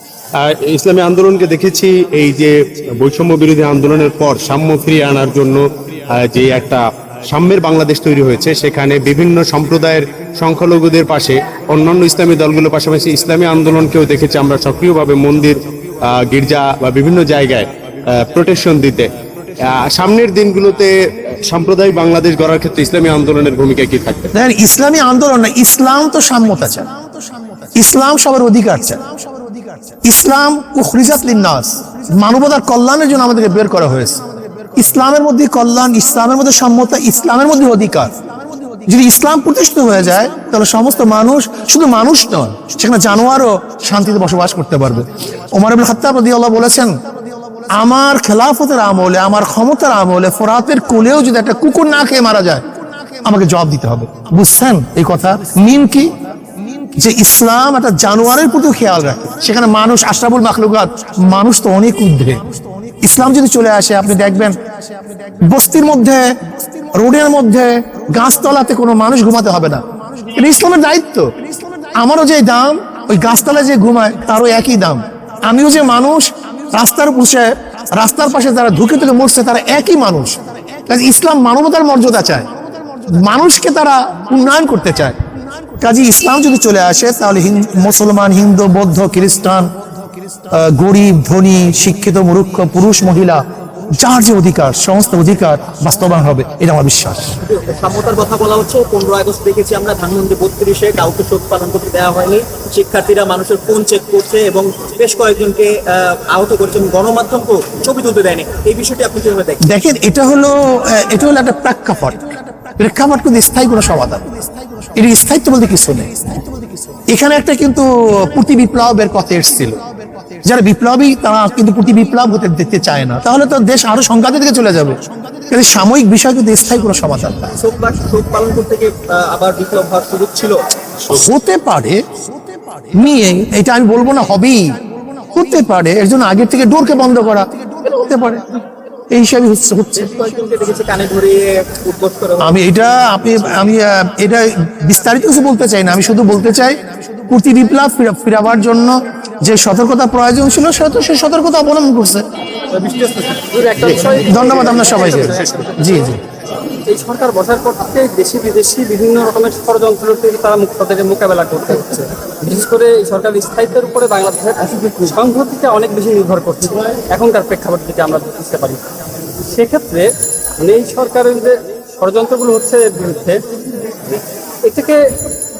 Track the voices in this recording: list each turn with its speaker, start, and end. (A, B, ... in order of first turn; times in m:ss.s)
0:00.4-0:19.1 A
0:19.6-0:24.2 A
0:24.3-0:26.9 B
0:27.7-0:29.0 B
0:30.0-0:38.2 B
0:38.8-0:47.0 B
0:47.7-0:52.6 B
0:53.2-0:56.2 B
0:56.9-1:02.4 B
1:03.0-1:04.6 B
1:05.4-1:11.3 B
1:11.9-1:25.2 B
1:25.8-1:29.7 B
1:30.5-1:33.4 B
1:34.0-1:37.4 B
1:37.4-1:49.6 C
1:49.6-1:56.4 B
1:57.1-1:59.8 B
2:00.4-2:07.5 B
2:07.6-2:10.6 C
2:11.0-2:12.0 B
2:12.8-2:14.8 B
2:15.3-2:20.1 B
2:20.0-2:22.6 C
2:22.4-2:32.2 B
2:32.7-2:36.1 D
2:34.0-2:36.2 B
2:36.8-2:48.8 D
2:49.5-2:53.4 D
2:54.6-2:55.2 D